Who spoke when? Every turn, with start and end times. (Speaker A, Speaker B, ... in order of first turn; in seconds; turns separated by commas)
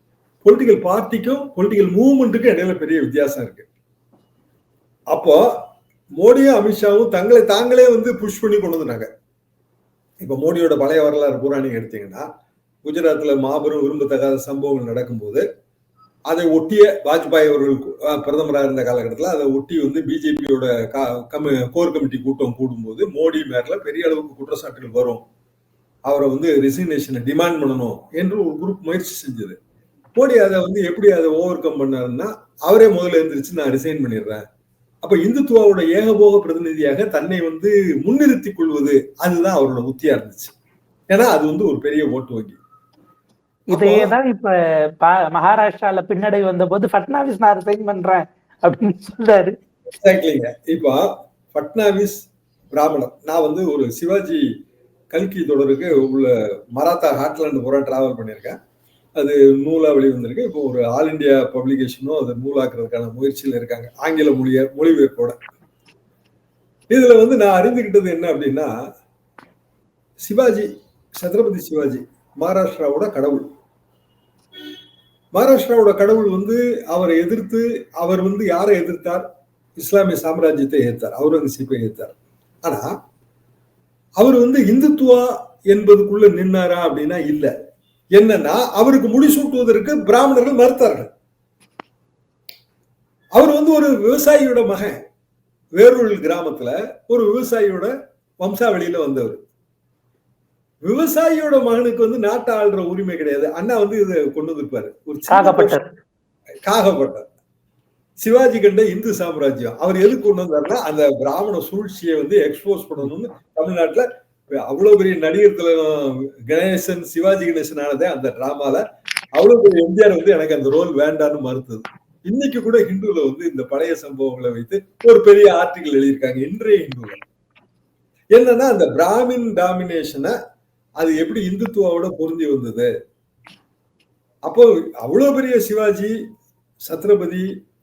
Speaker A: 0.4-3.7, Speaker A: 5.1-5.4, Speaker A: 6.2-9.1, Speaker A: 10.2-12.2, Speaker A: 12.8-15.4, Speaker A: 16.3-25.2, Speaker A: 26.1-29.6, Speaker A: 30.1-34.4, Speaker A: 35.0-40.5, Speaker A: 41.1-42.6, Speaker B: 43.7-44.5, Speaker A: 43.7-44.1, Speaker B: 45.0-49.5, Speaker A: 50.0-54.4, Speaker A: 55.1-58.5, Speaker A: 59.2-65.3, Speaker A: 66.9-68.7, Speaker A: 70.2-73.4, Speaker A: 75.3-79.2, Speaker A: 79.8-82.9, Speaker A: 84.2-87.5, Speaker A: 88.2-91.1, Speaker A: 93.3-94.9, Speaker A: 95.8-99.4, Speaker A: 100.8-105.8, Speaker B: 105.3-105.8, Speaker A: 106.7-107.2, Speaker A: 108.2-118.8, Speaker A: 119.3-127.2, Speaker A: 128.3-130.3, Speaker A: 131.0-132.9, Speaker A: 134.5-136.1, Speaker A: 136.9-137.5